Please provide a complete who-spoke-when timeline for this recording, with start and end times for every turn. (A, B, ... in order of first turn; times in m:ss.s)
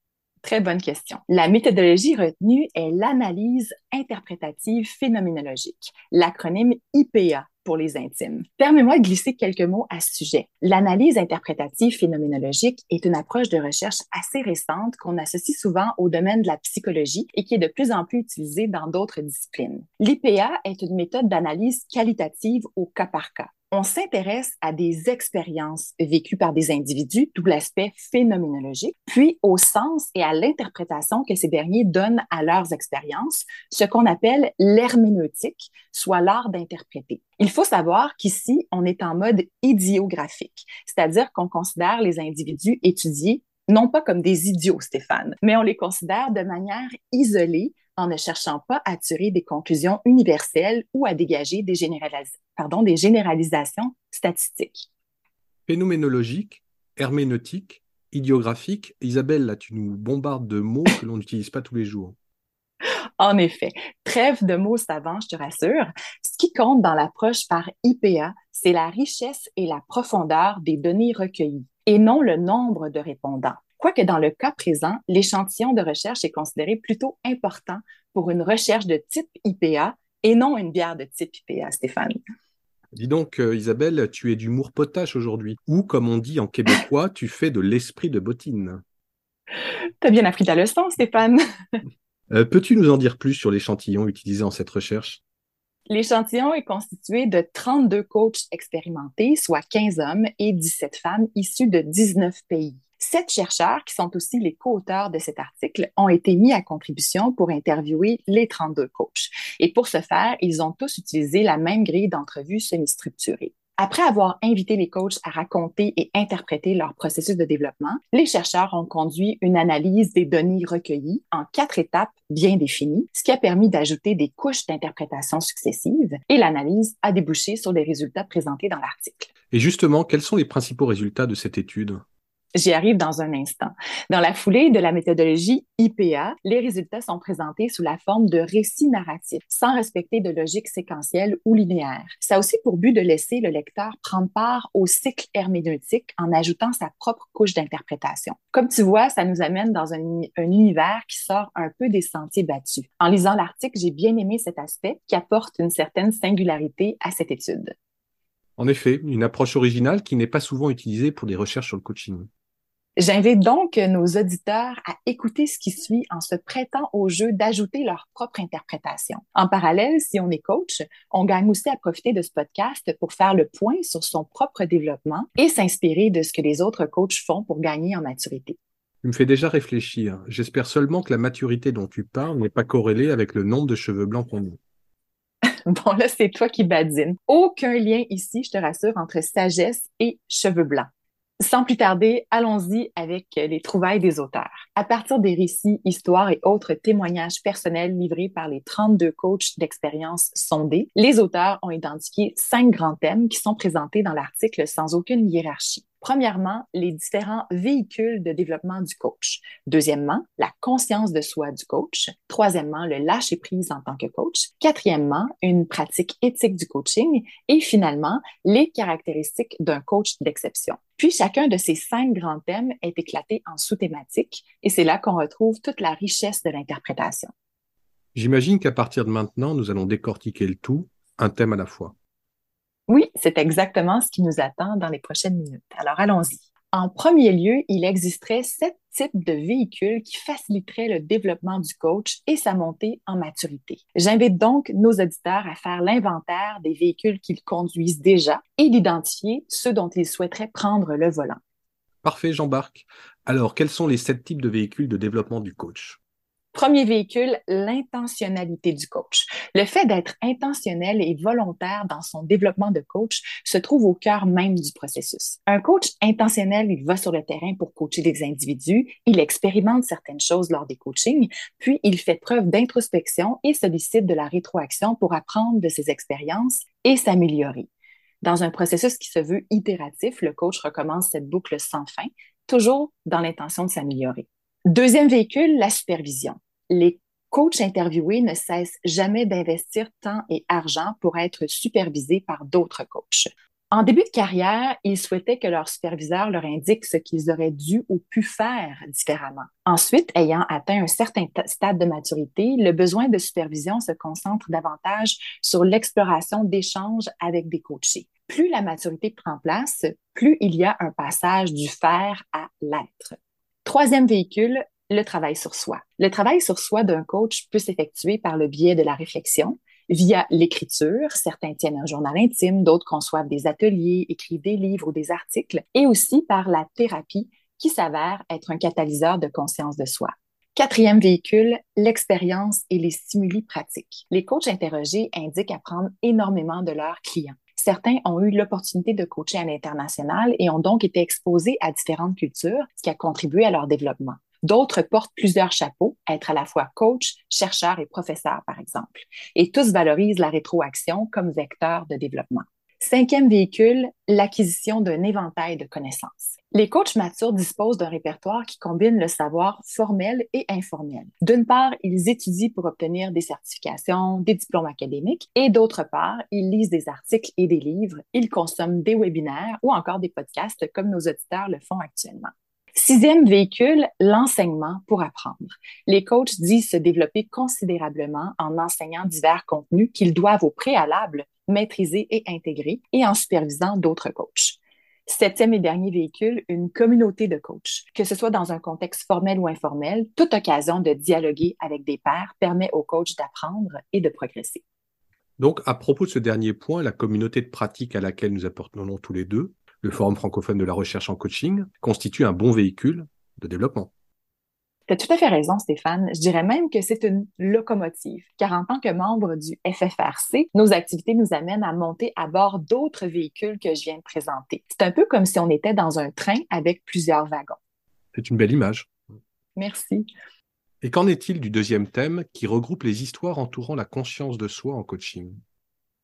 0:00.4-0:54.9 A
0:55.7-1:02.2 B
1:03.2-1:22.2 A
1:22.9-1:28.8 B
1:30.0-1:31.7 A
1:32.3-1:35.2 B
1:35.9-2:09.3 A
2:09.5-2:12.0 B
2:12.5-2:37.7 A
2:38.6-2:42.3 B
2:43.0-2:58.6 A
2:59.0-3:04.6 B
3:05.6-3:10.9 A
3:11.4-3:47.3 A
3:48.1-3:51.9 B
3:52.9-4:11.4 A
4:12.0-4:16.0 B
4:16.5-4:37.7 A
4:38.2-6:34.6 A
6:35.4-6:43.9 B
6:44.9-6:57.6 A
6:58.1-6:58.9 B
6:59.6-7:00.1 A
7:00.8-7:05.4 B